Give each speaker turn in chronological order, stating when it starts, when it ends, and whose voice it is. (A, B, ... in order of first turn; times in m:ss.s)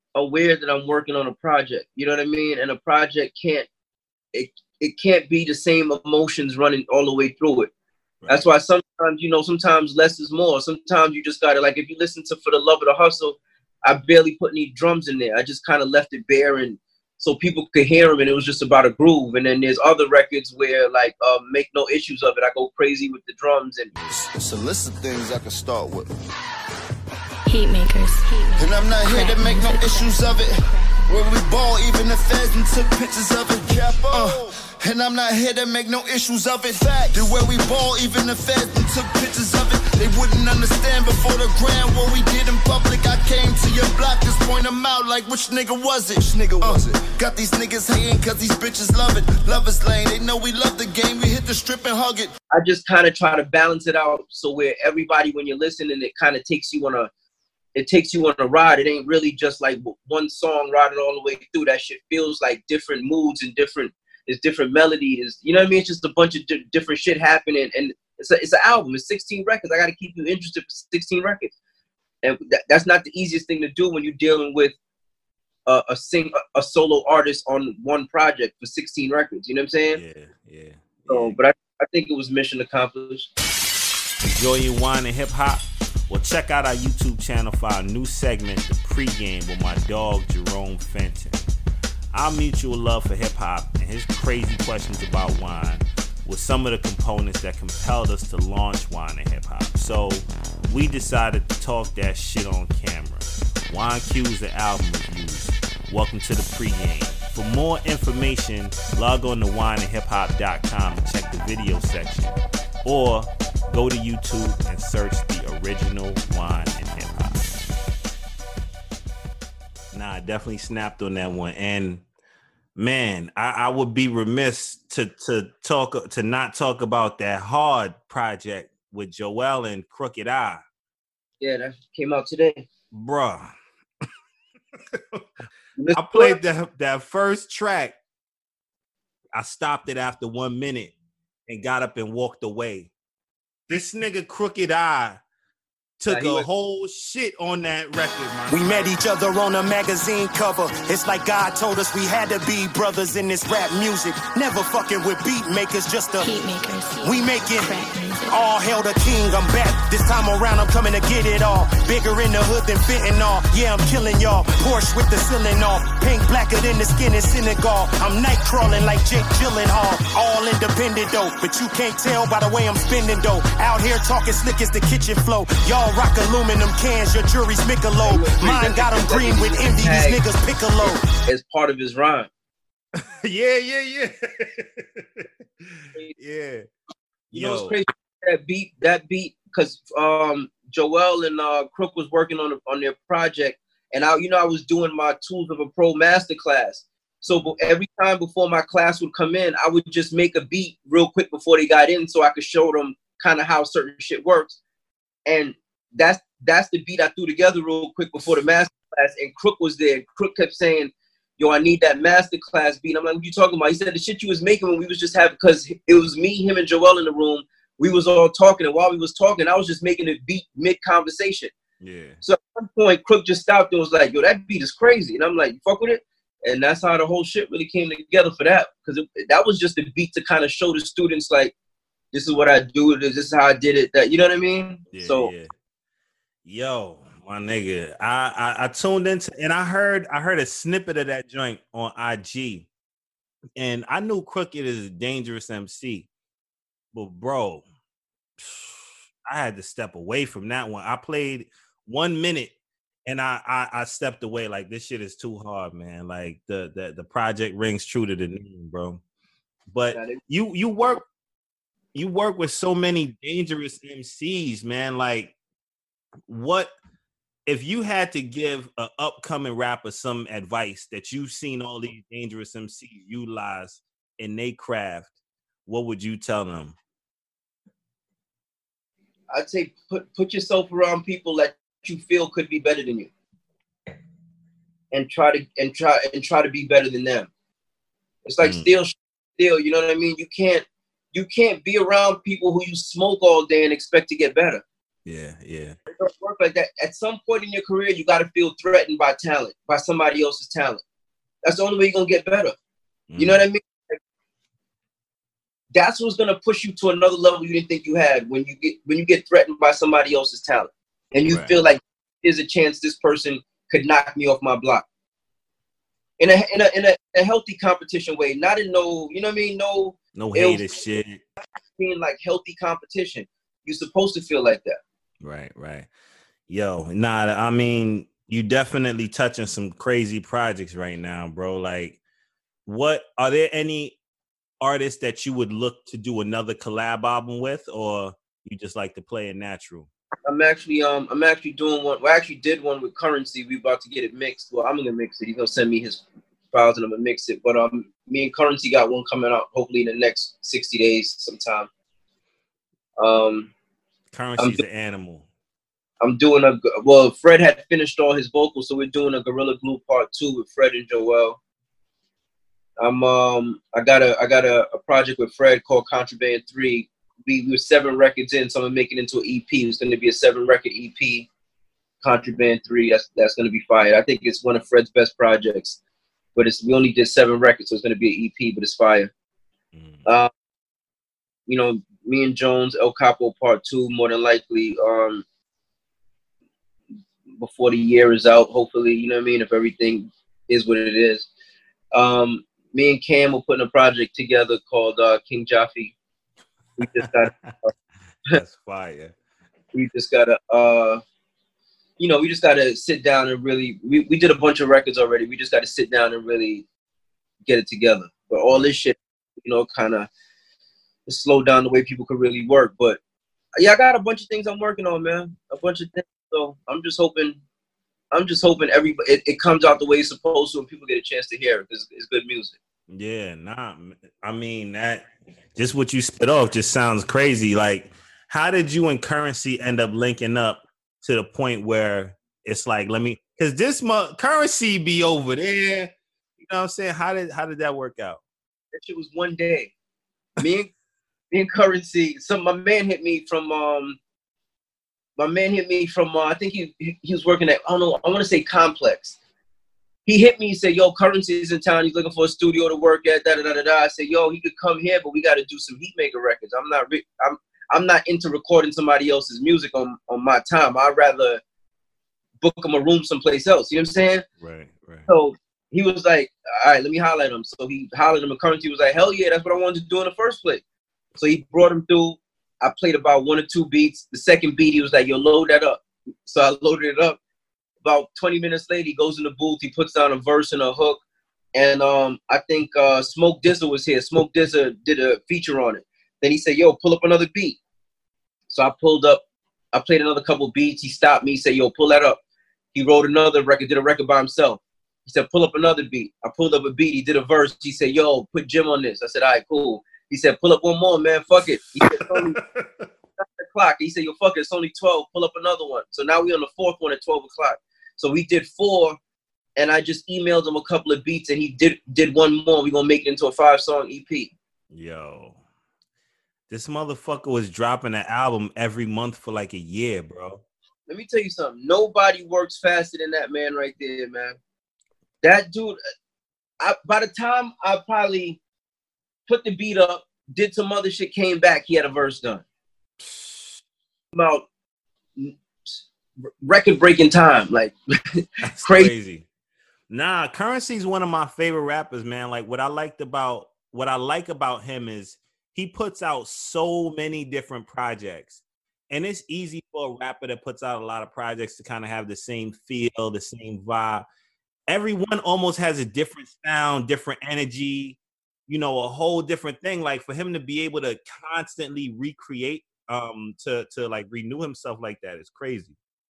0:00.2-0:03.7 A
0:04.3-0:07.7 A
0:08.3-0:23.9 A
0:24.0-0:24.2 B
0:24.2-0:26.1 C
0:27.5-0:31.4 D
0:28.6-0:52.3 C
0:52.5-0:57.1 A
0:57.8-1:11.5 A
1:12.2-1:14.8 A
1:15.7-1:20.0 A
1:19.9-1:21.4 B
1:21.1-1:23.3 A
1:24.2-1:31.4 B
1:32.1-1:57.6 B
1:59.9-2:02.0 B
2:02.8-2:10.6 B
2:11.4-2:12.7 A
2:12.9-2:13.5 B
2:14.9-2:15.2 B
2:15.8-2:16.4 A
2:15.9-2:18.0 B
2:19.3-2:20.9 B
2:21.5-2:22.9 B
2:23.7-2:25.2 B
2:26.0-2:28.9 B
2:26.1-2:26.5 A
2:28.5-2:36.3 E
2:36.2-2:38.5 D
2:37.0-3:01.0 E
2:58.0-3:00.2 A
3:00.8-3:02.3 A
3:03.0-3:06.7 B
3:07.3-3:07.8 B
3:07.3-3:24.6 A
3:25.3-3:41.5 A
3:41.8-3:42.2 B
3:42.2-3:51.5 A
3:52.1-3:55.3 A
3:54.9-3:55.5 B
3:56.4-4:02.7 B
4:03.6-4:06.1 B
4:06.9-4:07.6 B
4:08.4-4:12.5 B
4:13.1-4:19.0 B
4:19.7-4:21.0 B
4:19.9-4:20.2 A
4:22.0-4:25.3 B
4:26.3-4:26.7 B
4:27.5-4:35.1 B
4:35.7-4:36.8 B
4:39.3-4:43.1 A
4:44.9-4:47.3 A
4:48.2-4:54.6 A
4:48.4-4:48.7 B
4:55.1-4:55.8 B
4:55.9-5:00.8 A
5:01.4-5:02.6 A
5:03.1-5:03.4 B
5:03.2-5:04.0 A
5:05.7-5:14.8 A
5:11.3-5:11.6 B
5:16.2-5:20.7 A
5:20.2-5:21.2 B
5:21.8-5:24.8 A
5:25.2-5:25.9 B
5:26.5-5:32.0 B
5:32.7-5:34.0 B
5:34.6-5:39.9 B
5:40.3-5:51.7 A
5:53.0-5:53.5 A
5:54.1-5:55.3 B
5:54.4-5:54.6 A
5:56.0-6:01.4 A
6:02.8-6:11.3 A
6:12.0-6:15.8 A
6:16.4-6:19.1 A
6:19.7-6:20.0 B
6:21.5-6:25.2 A
6:27.4-6:31.3 A
6:31.9-6:35.9 A
6:36.8-6:37.5 B
6:36.8-6:37.7 A
6:38.3-6:39.1 B
6:39.7-6:41.0 A
6:42.0-6:46.6 A
6:47.5-6:50.1 A
6:51.1-6:53.0 A
6:53.6-6:57.4 A
6:58.1-7:02.6 A
7:02.9-7:18.2 B
7:18.7-7:19.7 A
7:20.4-7:20.7 A
7:21.3-7:24.0 A
7:25.2-7:29.2 A
7:30.1-7:41.4 A
7:42.4-7:44.2 A
7:44.4-7:45.1 B
7:45.1-7:50.6 A
7:51.2-7:57.2 A
7:57.8-8:01.0 A
8:01.6-8:07.6 A
8:08.5-8:09.2 A
8:09.7-8:12.2 A
8:12.7-8:22.4 A
8:22.0-8:22.9 B
8:23.2-8:29.0 A
8:29.6-8:34.3 A
8:34.7-8:35.4 B
8:36.5-8:40.4 B
8:40.9-8:44.4 A
8:45.2-8:45.8 A
8:46.6-8:48.4 A
8:49.3-8:52.4 A
8:53.0-8:53.6 B
8:54.1-8:54.5 A
8:56.2-8:58.9 A
8:58.4-8:59.2 B
8:59.9-9:14.1 B
9:14.7-9:25.8 B